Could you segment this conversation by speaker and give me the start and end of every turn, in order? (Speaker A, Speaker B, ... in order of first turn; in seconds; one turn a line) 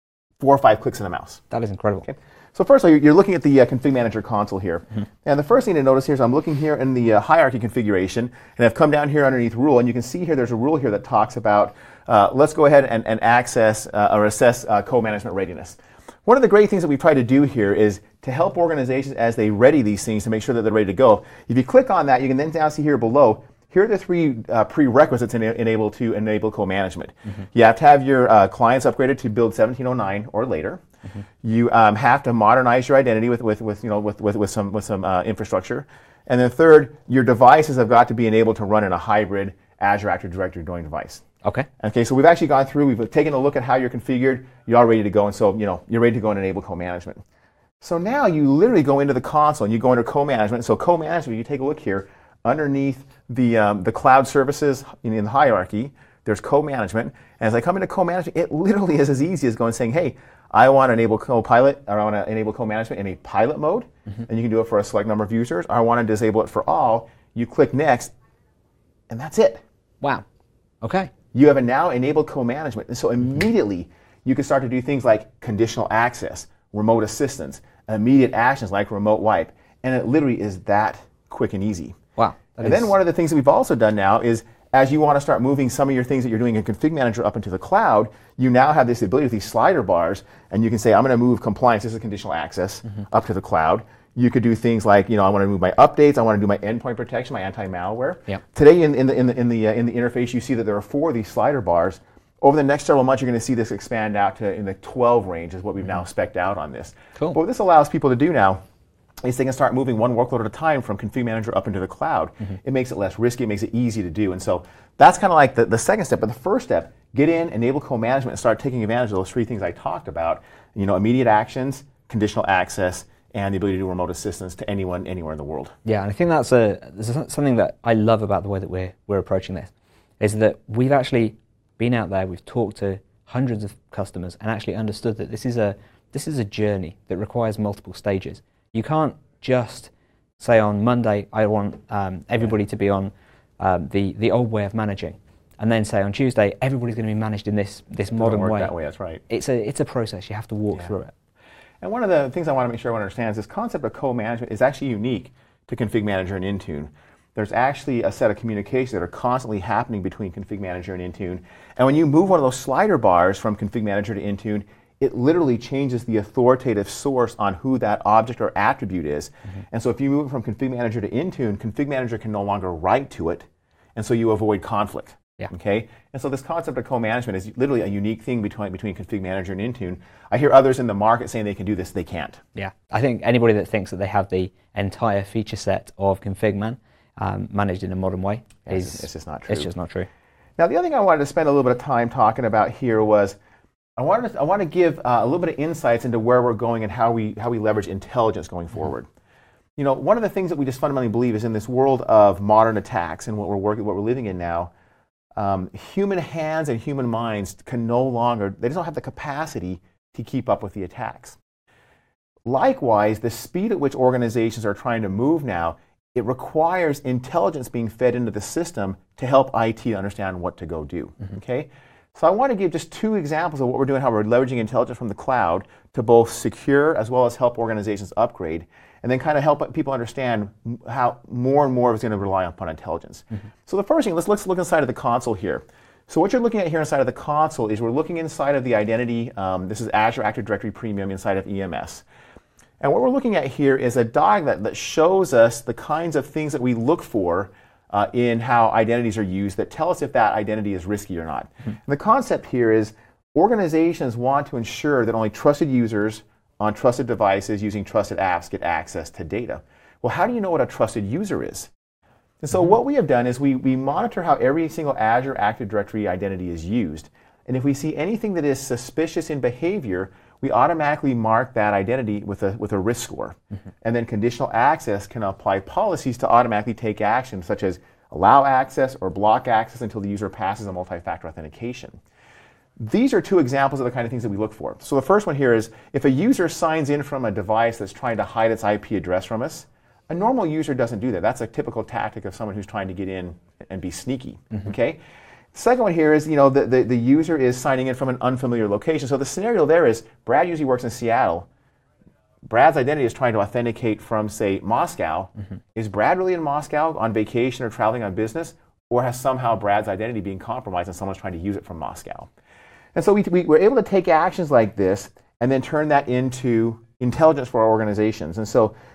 Speaker A: 0.4-1.4
Speaker B: 1.5-2.1
Speaker A: 2.0-30.8
Speaker A: 31.4-41.2
Speaker B: 41.4-41.7
Speaker A: 41.8-47.2
Speaker A: 47.8-68.1
Speaker A: 69.1-69.6
Speaker B: 70.8-71.1
Speaker A: 71.3-82.0
Speaker B: 82.2-82.9
Speaker A: 82.6-108.6
Speaker A: 109.2-125.7
Speaker B: 125.8-148.7
Speaker A: 148.1-149.2
Speaker B: 149.3-151.1
Speaker A: 151.8-182.4
Speaker B: 182.5-190.1
Speaker A: 188.7-189.7
Speaker A: 190.6-193.4
Speaker A: 194.0-199.1
Speaker A: 199.8-204.7
Speaker A: 205.3-211.4
Speaker A: 212.4-242.0
Speaker A: 242.8-261.7
Speaker A: 262.4-282.0
Speaker A: 282.8-295.0
Speaker A: 295.5-301.5
Speaker A: 302.5-312.3
Speaker A: 312.9-318.7